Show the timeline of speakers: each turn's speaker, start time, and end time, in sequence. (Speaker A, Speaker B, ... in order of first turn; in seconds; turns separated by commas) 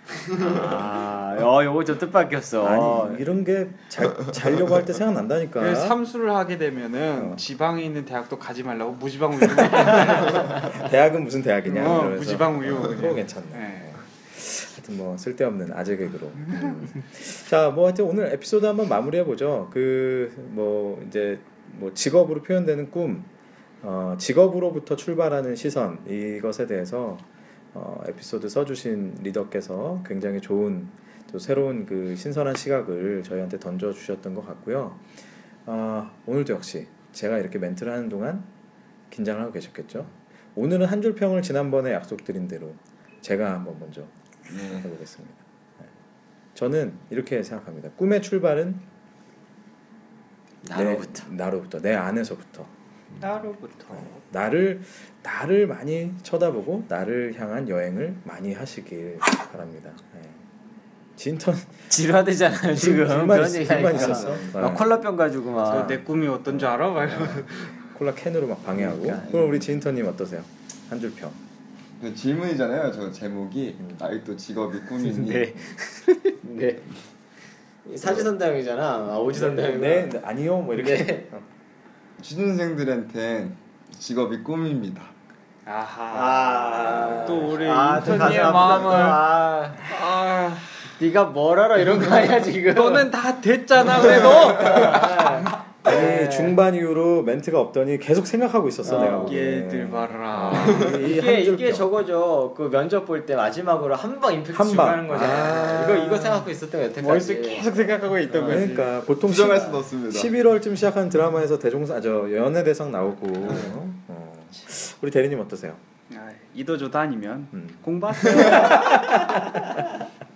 Speaker A: 0.4-3.2, Speaker B: 0.4-0.8, Speaker B: 2.6-6.0, Speaker C: 5.6-10.7, Speaker B: 7.2-7.4, Speaker B: 10.0-23.3, Speaker C: 11.6-14.0, Speaker C: 16.4-16.8, Speaker B: 23.8-35.0, Speaker B: 35.6-38.5, Speaker B: 39.1-44.1, Speaker D: 44.5-44.9, Speaker B: 44.6-45.9, Speaker B: 46.5-48.9, Speaker A: 50.6-51.3, Speaker B: 50.7-52.7, Speaker C: 53.2-54.2, Speaker B: 53.9-60.4, Speaker B: 61.1-61.9, Speaker A: 61.9-66.0, Speaker B: 62.6-64.9, Speaker D: 63.8-64.6, Speaker C: 65.6-67.8, Speaker B: 66.5-71.4, Speaker A: 68.7-69.4, Speaker D: 69.2-69.6, Speaker D: 72.0-75.5, Speaker A: 75.0-76.9, Speaker A: 77.8-80.2, Speaker B: 78.0-78.3, Speaker B: 79.3-81.4, Speaker A: 80.7-81.3, Speaker D: 82.2-85.1, Speaker C: 85.7-90.9, Speaker A: 86.1-89.9, Speaker B: 87.0-87.3, Speaker A: 91.0-93.1, Speaker C: 92.7-95.5, Speaker A: 94.2-96.6, Speaker B: 95.8-101.9, Speaker A: 98.8-99.3, Speaker C: 98.9-101.0, Speaker A: 100.7-108.6, Speaker B: 104.5-106.4, Speaker C: 107.0-108.9, Speaker B: 108.3-115.8, Speaker D: 109.2-110.3, Speaker C: 116.1-119.5, Speaker B: 117.5-119.9